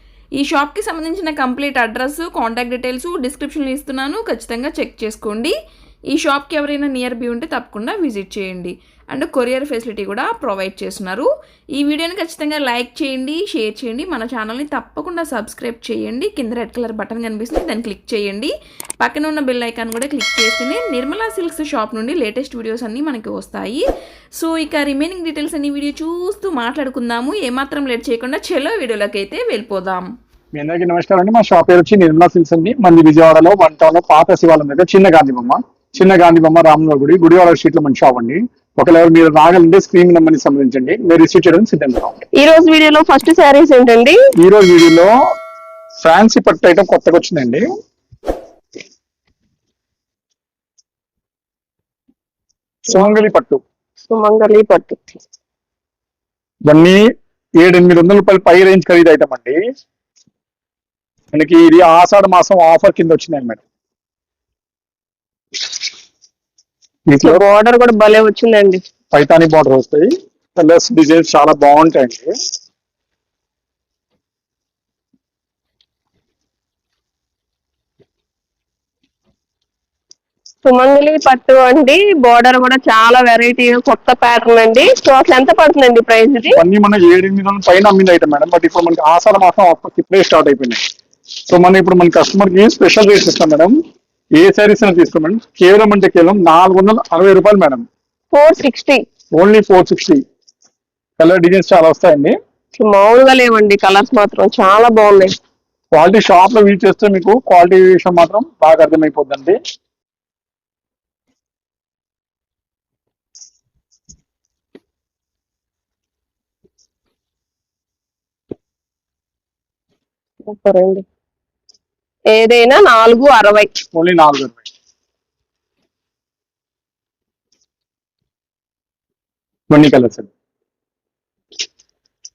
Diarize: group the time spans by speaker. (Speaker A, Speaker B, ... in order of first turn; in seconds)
Speaker A: 0.4-5.5, 6.1-23.9, 24.4-30.1
Speaker B: 30.5-42.2, 44.4-45.1, 46.0-47.7, 52.9-53.6, 56.6-57.0, 57.6-59.6, 61.3-63.6, 67.1-67.4, 69.1-72.3, 86.5-90.8, 91.5-93.7, 94.4-97.8, 99.3-100.2, 101.2-102.3, 105.9-109.6, 123.9-124.6, 129.7-130.3
Speaker C: 42.4-44.2, 54.1-55.2, 67.2-68.8, 80.6-86.6, 98.3-99.0, 102.8-105.3, 120.5-121.0, 122.3-123.7